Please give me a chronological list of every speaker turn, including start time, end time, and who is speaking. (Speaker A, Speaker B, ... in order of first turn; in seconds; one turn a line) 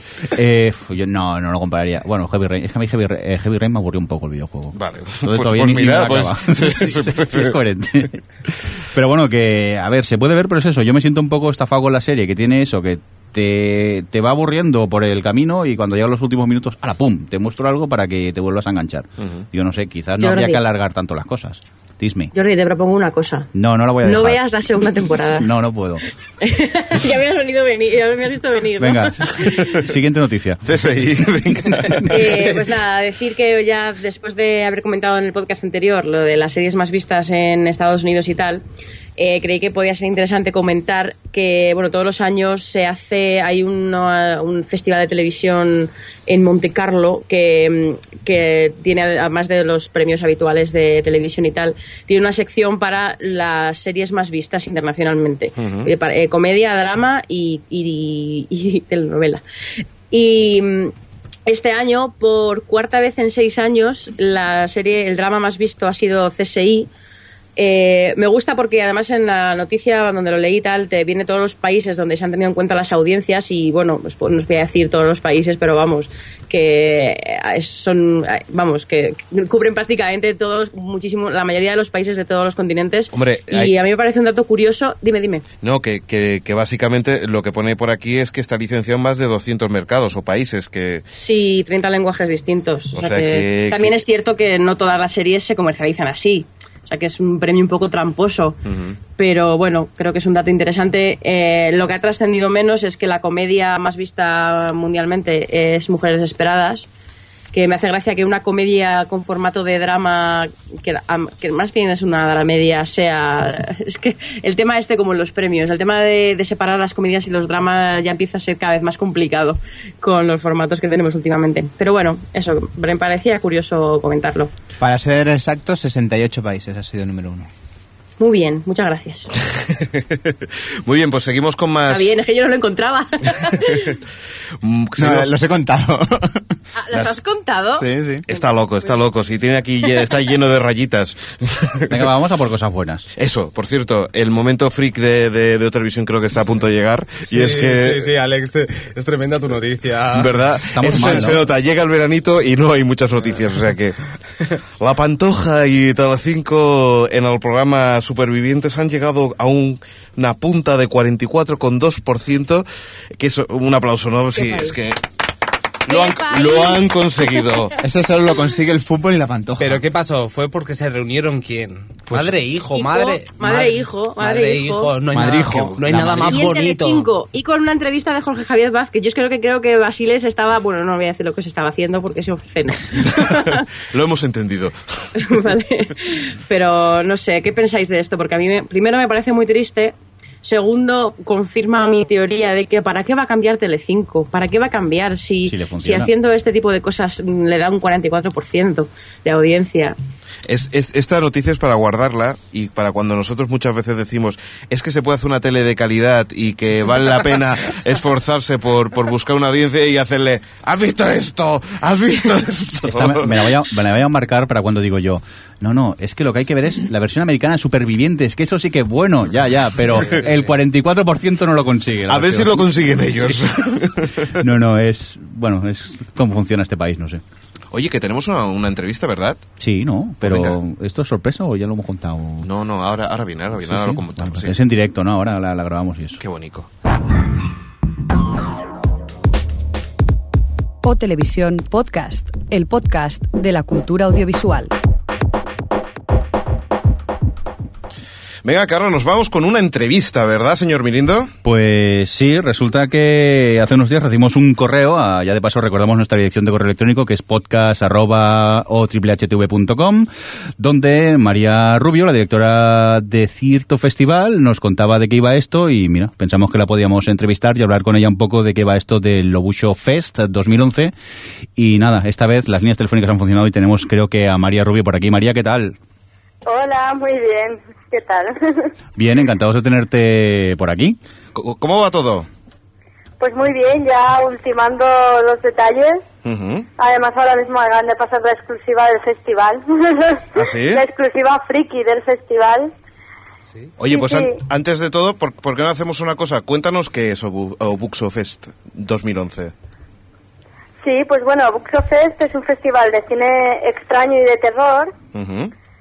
Speaker A: 0.3-8.2
Speaker B: 4.7-7.5
Speaker A: 8.9-22.3
Speaker B: 19.2-19.4
Speaker C: 20.2-20.6
Speaker C: 22.3-23.5
Speaker A: 23.5-24.4
Speaker C: 24.0-25.5
Speaker A: 25.4-26.0
Speaker C: 26.4-29.8
Speaker A: 28.8-30.6
Speaker B: 30.6-32.5
Speaker C: 32.1-38.6
Speaker C: 39.2-59.4
Speaker B: 55.6-55.9
Speaker C: 60.1-60.9
Speaker C: 61.5-66.9
Speaker C: 67.6-85.4
Speaker B: 83.1-83.7
Speaker B: 85.6-91.0
Speaker C: 91.1-98.6
Speaker B: 92.9-94.0
Speaker B: 98.6-99.0
Speaker C: 99.2-106.9
Speaker C: 107.5-124.5
Speaker D: 124.8-127.5
Speaker C: 128.2-129.3
Speaker B: 129.5-132.1
Speaker C: 131.9-134.0
Speaker B: 134.6-135.3
Speaker D: 135.0-136.4
Speaker C: 136.7-138.4
Speaker D: 137.8-138.2
Speaker B: 138.3-142.0
Speaker A: 141.9-143.1
Speaker B: 143.2-148.1
Speaker E: 147.2-151.2
Speaker B: 150.1-154.0
Speaker A: 150.7-151.4
Speaker B: 154.8-165.0
Speaker C: 164.3-164.8
Speaker B: 165.8-167.8
Speaker C: 165.9-167.7
Speaker D: 167.8-169.8
Speaker E: 169.6-177.1
Speaker C: 172.7-174.9
Speaker D: 175.1-176.5
Speaker B: 175.3-175.8
Speaker C: 176.2-183.7
Speaker B: 183.1-185.1
Speaker C: 185.2-199.9
Speaker A: 195.5-196.1
Speaker B: 200.4-213.4
Speaker A: 212.8-222.6
Speaker E: 220.1-220.4
Speaker B: 222.1-224.4
Speaker A: 224.3-227.2
Speaker B: 227.7-229.4
Speaker A: 229.6-232.5
Speaker B: 230.2-230.6
Speaker B: 232.4-234.6
Speaker A: 233.6-236.2
Speaker B: 236.2-236.7
Speaker F: 240.8-244.7
Speaker B: 248.4-251.3
Speaker A: 251.4-270.9
Speaker A: 271.6-275.8
Speaker G: 276.4-278.7
Speaker A: 278.9-281.0
Speaker B: 281.3-282.3
Speaker G: 283.2-286.1
Speaker B: 286.2-286.7
Speaker G: 286.8-292.7
Speaker B: 290.3-290.8
Speaker E: 293.5-293.7
Speaker B: 293.8-299.5
Speaker G: 293.9-294.4
Speaker G: 300.8-304.9
Speaker B: 305.1-305.5